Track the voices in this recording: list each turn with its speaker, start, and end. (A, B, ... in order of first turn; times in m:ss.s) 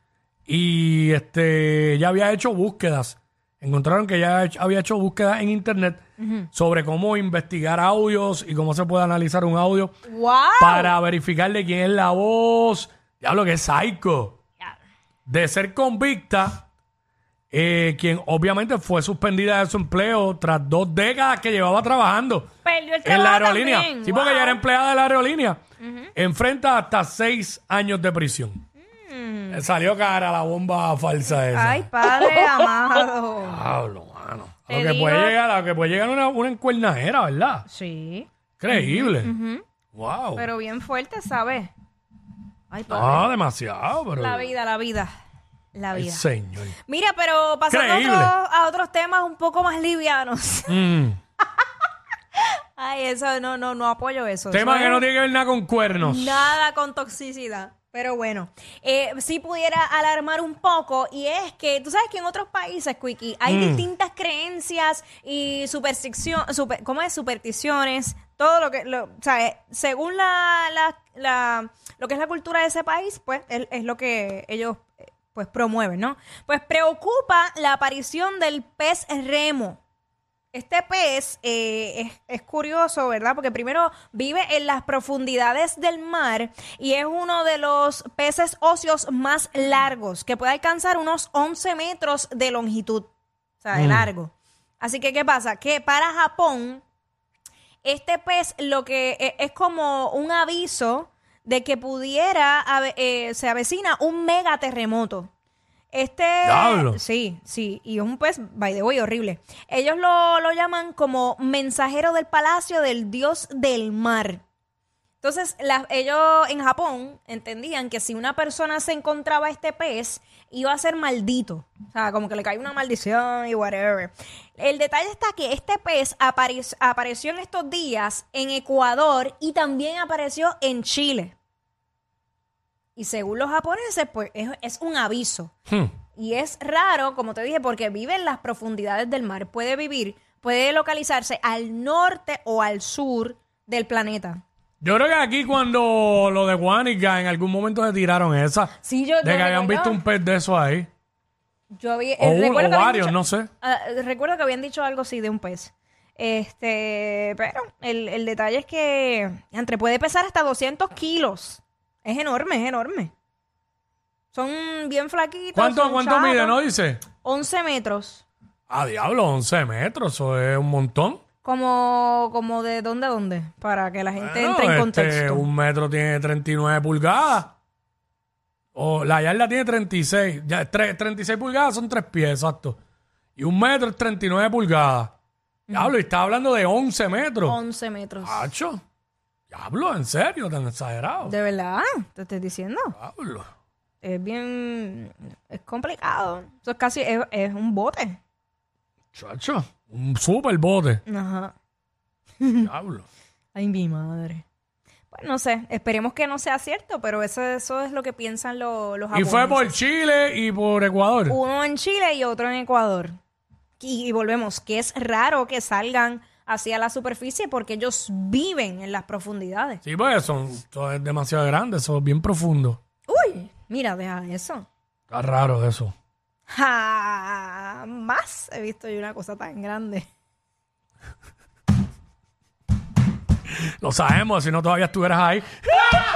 0:00.5-0:09.9 A
0:06.2-0:06.5 B
0:10.1-0:11.0 B
0:10.6-0:14.4 A
0:15.3-0:16.7 A
0:17.5-0:22.5 A
0:22.6-0:24.6 B
0:23.0-0:25.6 A
0:25.8-0:26.1 B
0:26.2-0:28.6 A
0:28.8-0:29.7 B
0:29.5-0:32.7 A
0:31.3-0:33.6 B
0:33.4-0:37.7 A
0:34.7-0:35.4 B
0:37.7-0:39.6 B
0:38.6-0:39.3 A
0:40.0-0:40.5 A
0:40.4-0:41.7 B
0:42.7-0:43.3 B
0:42.9-0:44.5 A
0:44.2-0:45.1 B
0:45.7-0:46.3 B
0:45.9-0:46.8 A
0:46.8-0:50.8 B
0:47.7-0:48.3 A
0:50.7-0:51.2 A
0:52.4-0:55.1 B
0:54.5-0:56.5 A
0:56.0-1:19.8 B
1:03.5-1:03.9 A
1:20.5-1:33.1 B
1:33.6-1:36.8 B
1:33.8-1:34.1 A
1:37.8-1:45.3 B
1:45.9-1:54.4 B
1:46.4-1:47.0 A
1:55.2-2:11.4 B
2:13.0-2:15.5 B
2:16.2-2:24.4 B
2:24.8-2:30.9 A
2:28.8-2:30.0 B
2:31.7-2:43.1 B
2:32.2-2:33.5 A
2:44.3-2:46.6 B
2:45.6-2:47.1 A
2:47.2-2:48.2 B
2:48.7-2:51.2 A
2:51.4-2:55.5 B
2:54.2-2:57.5 A
2:58.8-3:02.8 A
3:03.4-3:05.1 A
3:05.7-3:05.9 B
3:05.7-3:07.6 A
3:07.4-3:08.5 B
3:08.2-3:08.8 A
3:09.5-3:11.4 A
3:11.2-3:13.0 B
3:13.0-3:13.5 A
3:14.0-3:18.2 B
3:19.2-3:21.0 A
3:21.1-3:21.5 B
3:22.4-3:22.7 B
3:22.6-3:23.0 A
3:23.5-3:24.4 B
3:25.1-3:29.8 B
3:29.1-3:31.4 A
3:31.3-3:33.1 B
3:33.8-3:39.8 B
3:39.8-3:42.8 A
3:43.1-3:44.7 B
3:45.1-3:45.9 A
3:46.5-3:50.1 B
3:53.8-3:55.5 A